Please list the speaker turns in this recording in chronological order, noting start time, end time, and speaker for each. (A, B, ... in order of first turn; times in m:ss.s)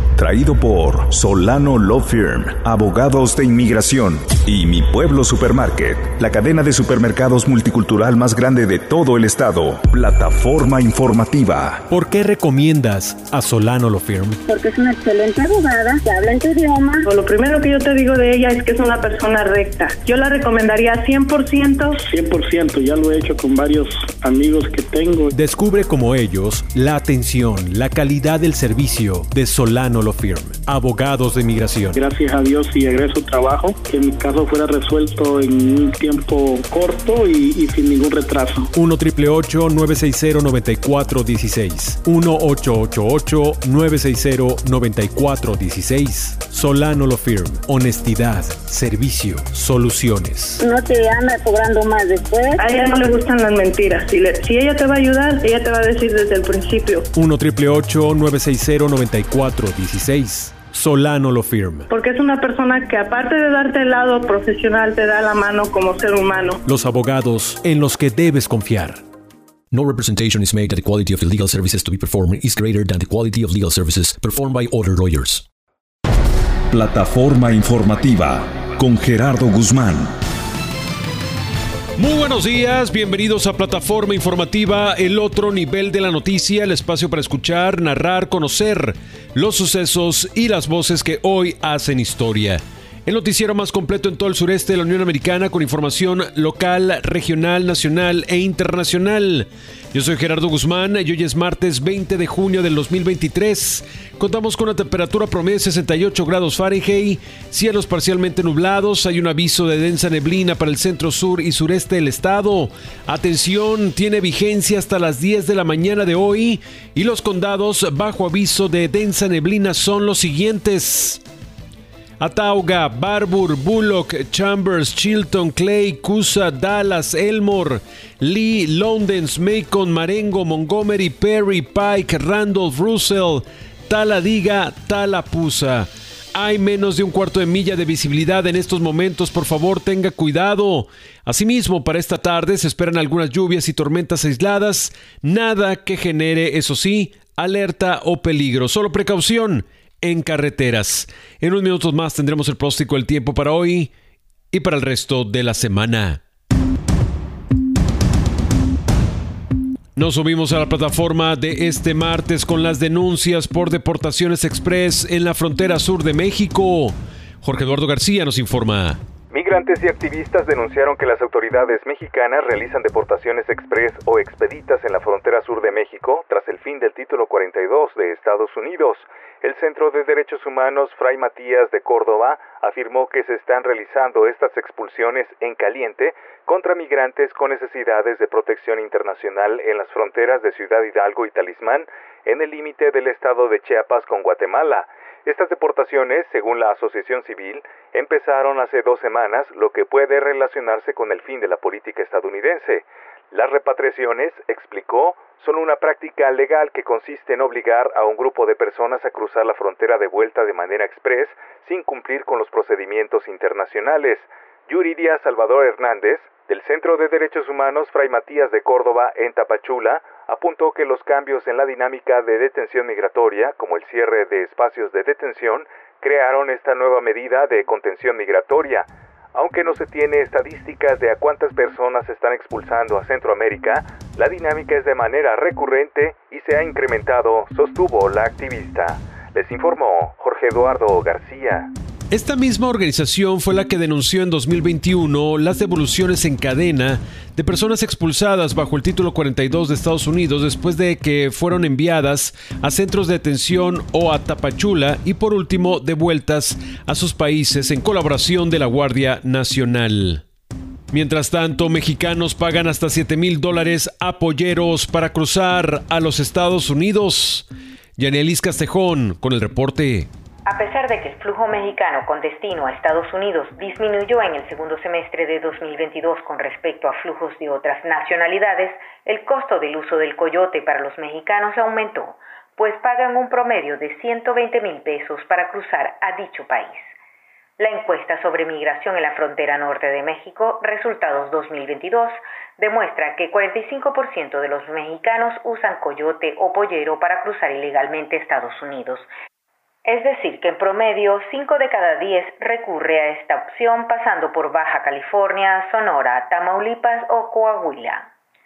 0:00.1-0:11.8 A
0:11.9-0:14.4 B
0:14.5-0:17.0 C
0:17.0-0:22.0 D
0:22.1-0:25.3 E
0:25.3-0:32.0 B
0:32.0-0:38.7 E
0:38.7-0:50.6 B
0:50.6-0:52.6 C
0:52.6-0:57.1 D
0:57.1-1:01.9 B
1:01.9-1:06.6 D
1:06.6-1:09.0 B
1:09.7-1:15.4 F
1:16.7-1:20.2 A
1:22.0-2:01.2 B
2:02.2-2:33.9 B
2:34.5-2:36.2 B
2:40.0-2:49.0 B
2:49.3-4:01.7 G
4:02.1-4:20.2 B
4:20.9-4:30.1 B
4:30.4-4:46.9 H
4:47.6-4:59.1 H
4:59.8-5:08.1 H